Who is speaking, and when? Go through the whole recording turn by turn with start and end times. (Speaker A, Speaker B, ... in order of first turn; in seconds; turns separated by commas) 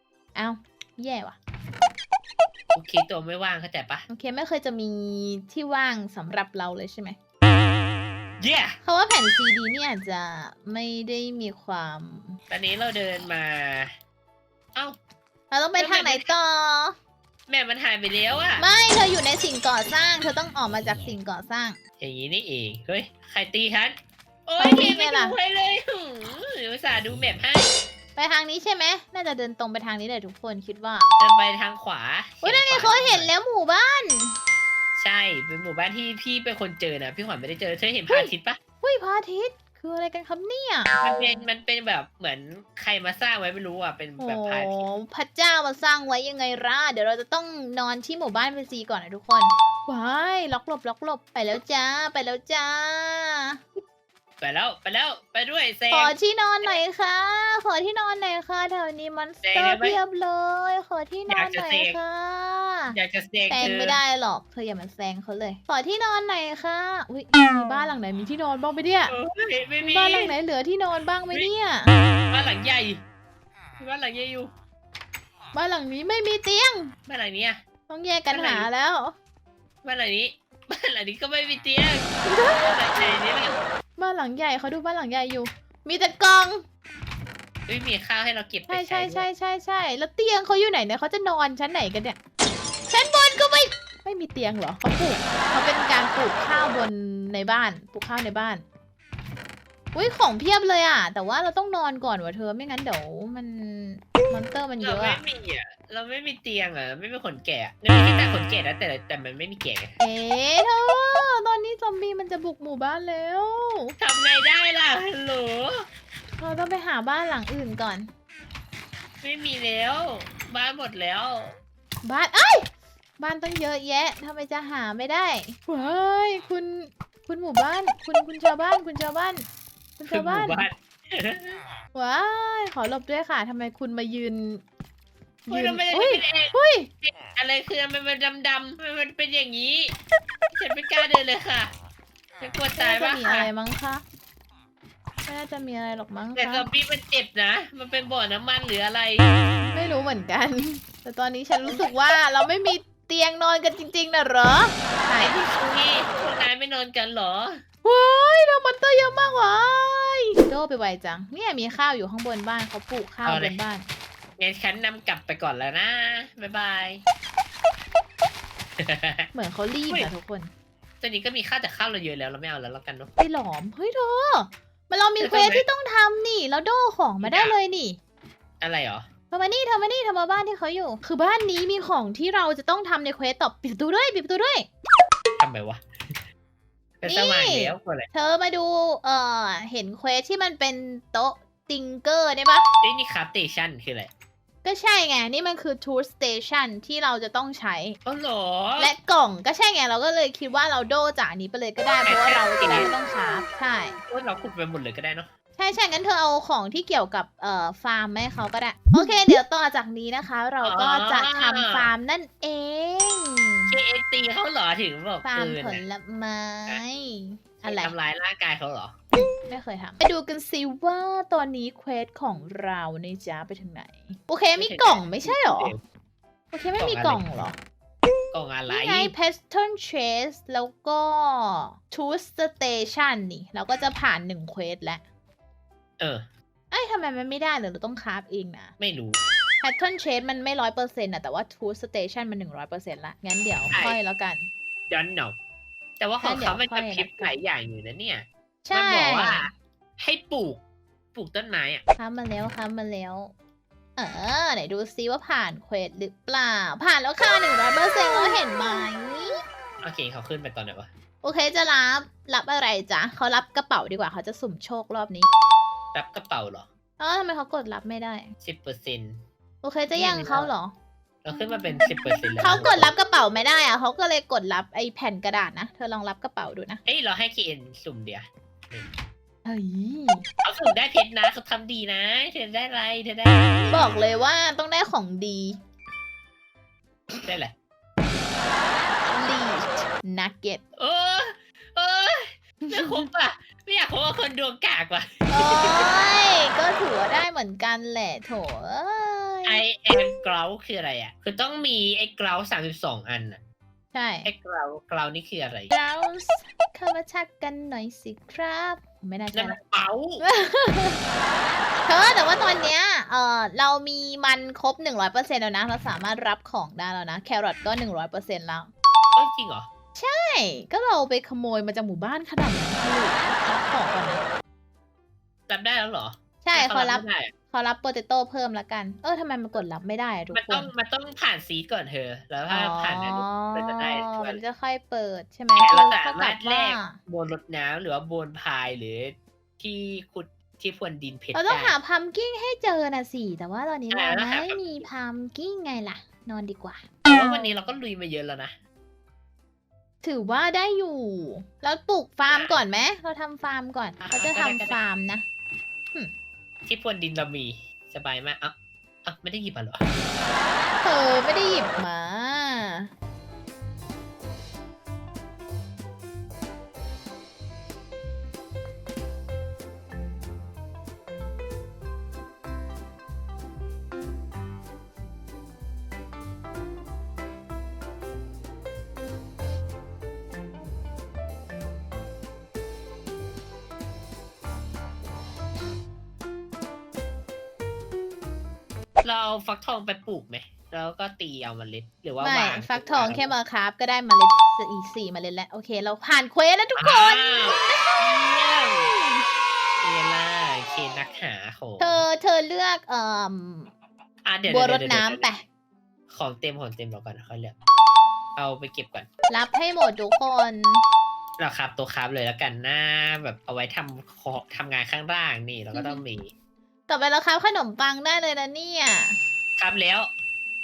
Speaker A: 0.4-1.4, Speaker B: 2.7-4.1, Speaker A: 4.1-7.2, Speaker B: 8.4-8.8, Speaker A: 8.8-12.4, Speaker B: 12.5-13.9, Speaker A: 15.5-17.0, Speaker B: 15.8-16.4, Speaker B: 17.5-18.7, Speaker A: 18.6-21.8, Speaker B: 22.0-27.7, Speaker A: 24.6-25.4, Speaker A: 28.2-31.1, Speaker B: 31.2-33.3, Speaker A: 32.4-34.4, Speaker B: 35.0-38.6, Speaker A: 38.1-41.5, Speaker B: 41.0-44.9, Speaker A: 44.2-53.6, Speaker B: 54.4-56.8, Speaker A: 55.9-63.0, Speaker B: 59.4-60.0, Speaker B: 61.3-62.0, Speaker B: 62.9-64.0, Speaker A: 63.5-69.2, Speaker B: 69.1-70.3, Speaker A: 69.8-72.0, Speaker B: 72.3-73.0, Speaker B: 73.8-74.5, Speaker A: 75.5-77.0, Speaker B: 77.1-77.6, Speaker A: 77.9-79.2, Speaker B: 78.3-78.7, Speaker B: 79.8-83.6, Speaker A: 82.2-83.2, Speaker A: 84.0-86.6, Speaker B: 87.7-89.3, Speaker A: 88.7-92.2, Speaker A: 92.9-98.6, Speaker B: 95.0-95.2, Speaker A: 99.9-105.2, Speaker B: 104.8-110.0, Speaker A: 110.0-114.0, Speaker B: 114.0-115.8, Speaker A: 116.4-118.1, Speaker B: 119.2-121.6, Speaker A: 122.0-122.7, Speaker A: 123.2-130.7, Speaker B: 130.1-131.6, Speaker A: 131.9-134.6, Speaker A: 135.5-136.9, Speaker B: 135.5-139.9, Speaker B: 140.5-141.7, Speaker B: 142.4-143.5, Speaker A: 142.8-144.0, Speaker A: 145.3-146.7, Speaker B: 146.4-149.3, Speaker A: 149.6-155.4, Speaker B: 155.2-157.6, Speaker A: 157.8-163.9, Speaker B: 163.2-163.6, Speaker B: 164.4-167.0, Speaker B: 168.8-169.3, Speaker A: 169.3-170.5, Speaker B: 171.0-173.1, Speaker A: 173.2-178.0, Speaker B: 175.2-175.7, Speaker B: 177.2-177.6, Speaker B: 178.6-179.1, Speaker A: 179.3-184.7, Speaker B: 185.4-186.2, Speaker B: 187.0-188.1, Speaker A: 187.1-192.7, Speaker B: 192.8-194.1, Speaker A: 194.6-198.0, Speaker B: 198.1-198.9, Speaker A: 198.8-204.0, Speaker B: 202.1-203.0, Speaker B: 204.1-205.3, Speaker A: 205.6-213.7, Speaker B: 210.6-211.9, Speaker B: 213.7-215.8, Speaker A: 215.2-217.9, Speaker B: 217.6-218.9, Speaker A: 219.1-225.7, Speaker B: 224.6-225.8, Speaker A: 226.5-227.6, Speaker B: 226.8-227.2, Speaker B: 228.3-229.1, Speaker A: 228.7-235.0, Speaker B: 236.0-236.3, Speaker A: 236.7-238.8, Speaker B: 238.8-239.2, Speaker A: 239.6-244.5, Speaker B: 243.7-244.0, Speaker B: 244.9-245.4, Speaker B: 246.0-250.6, Speaker A: 246.2-247.4, Speaker A: 248.7-249.5, Speaker B: 251.1-251.8, Speaker A: 252.0-253.3, Speaker A: 254.0-259.4, Speaker B: 259.8-260.9, Speaker A: 261.2-265.3, Speaker B: 265.9-266.7, Speaker A: 267.0-268.3, Speaker B: 268.4-269.2, Speaker A: 269.6-270.8, Speaker B: 269.9-270.5, Speaker B: 271.2-272.9, Speaker A: 272.4-276.8, Speaker B: 276.9-278.9, Speaker A: 279.4-280.3, Speaker B: 280.4-284.0, Speaker A: 283.7-285.6, Speaker B: 287.3-287.5, Speaker A: 289.1-290.6, Speaker B: 290.8-295.9, Speaker A: 292.6-293.1, Speaker A: 295.3-299.6, Speaker B: 299.4-303.4, Speaker A: 303.9-304.3, Speaker B: 304.2-305.7, Speaker A: 305.7-309.6, Speaker B: 309.3-310.2, Speaker A: 310.2-311.0, Speaker A: 311.9-318.7, Speaker B: 319.2-319.7, Speaker A: 320.0-324.2, Speaker B: 325.5-327.3, Speaker A: 326.4-330.7, Speaker B: 330.3-334.4, Speaker A: 332.5-337.0, Speaker B: 335.6-341.8, Speaker A: 341.3-346.9, Speaker B: 343.9-344.9, Speaker B: 347.1-348.6, Speaker A: 350.0-355.2, Speaker B: 352.3-352.6, Speaker B: 354.0-354.8, Speaker B: 356.7-358.5, Speaker B: 359.1-359.9, Speaker A: 360.8-362.9, Speaker B: 389.0-393.4, Speaker A: 392.2-399.3, Speaker B: 396.8-398.9, Speaker B: 399.8-402.1, Speaker A: 401.8-403.7, Speaker B: 404.2-405.3, Speaker A: 404.5-405.4, Speaker B: 406.1-407.6, Speaker B: 408.4-409.1, Speaker A: 409.3-410.8, Speaker B: 411.4-416.3, Speaker A: 415.7-416.0, Speaker A: 416.9-419.2, Speaker B: 419.6-420.1